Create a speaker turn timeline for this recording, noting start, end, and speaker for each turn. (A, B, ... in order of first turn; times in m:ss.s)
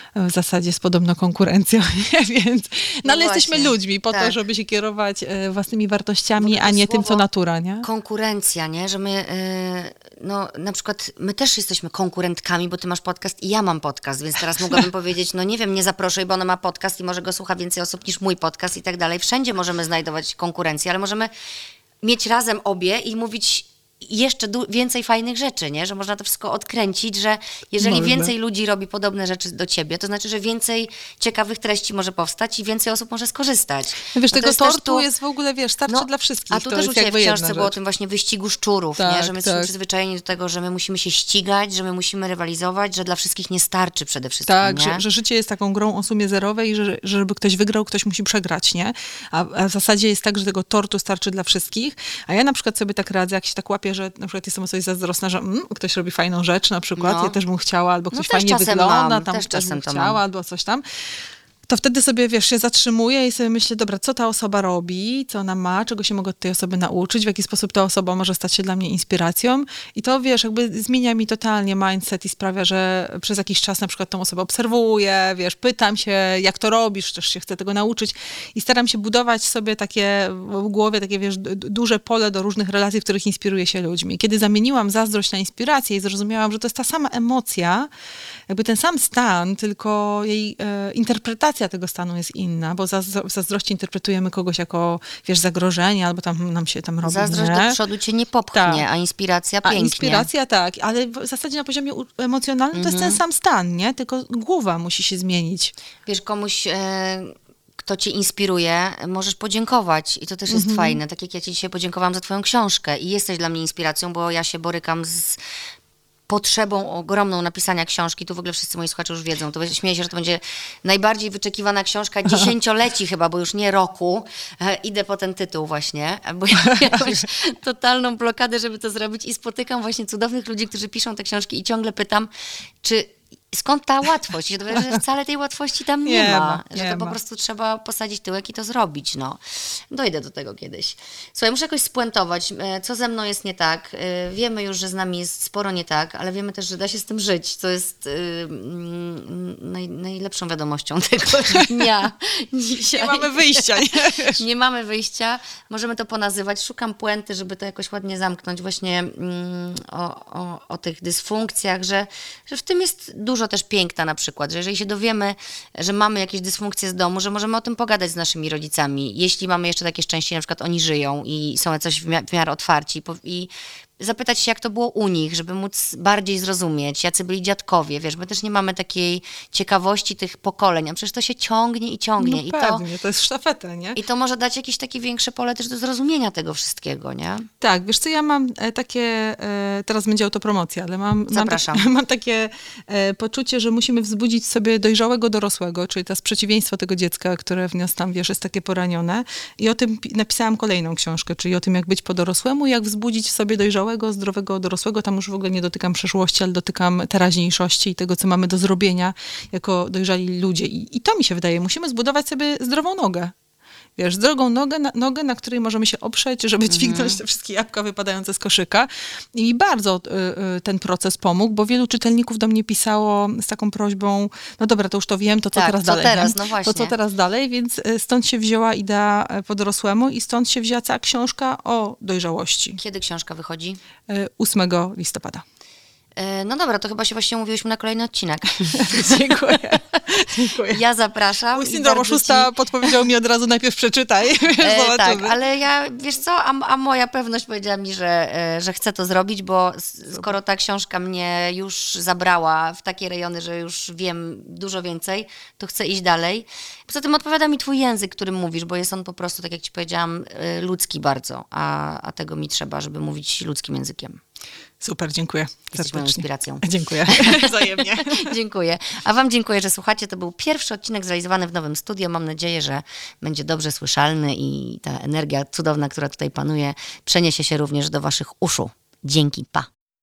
0:00.1-0:07.8 A
0:03.0-0:04.3 B
0:06.4-0:07.2 B
0:07.8-0:21.3 B
0:22.0-0:35.0 B
0:27.8-0:28.3 A
0:34.1-0:37.7 A
0:35.9-0:45.0 B
0:39.0-0:39.7 A
0:44.4-1:00.8 A
0:57.0-0:57.4 B
0:58.1-1:00.2 B
1:01.7-1:27.9 A
1:28.5-1:37.8 A
1:37.0-1:40.3 B
1:38.5-1:38.8 A
1:39.6-1:45.7 A
1:42.7-1:43.2 B
1:46.0-1:55.4 B
1:50.5-1:51.0 A
1:56.3-2:12.3 B
2:06.8-2:07.2 A
2:12.8-2:33.8 B
2:16.0-2:17.2 A
2:32.9-2:34.4 A
2:34.3-3:02.8 B
3:02.2-3:04.0 A
3:04.0-3:07.5 B
3:07.6-3:33.3 A
3:11.3-3:11.9 B
3:34.0-3:52.8 A
3:36.7-3:37.2 B
3:45.5-3:46.9 B
3:52.8-3:53.8 B
3:54.1-3:55.4 A
3:56.2-3:59.6 B
3:58.7-4:00.8 A
4:00.6-4:02.5 B
4:01.5-4:05.4 A
4:04.6-4:24.2 B
4:24.8-4:28.3 A
4:25.7-4:39.7 B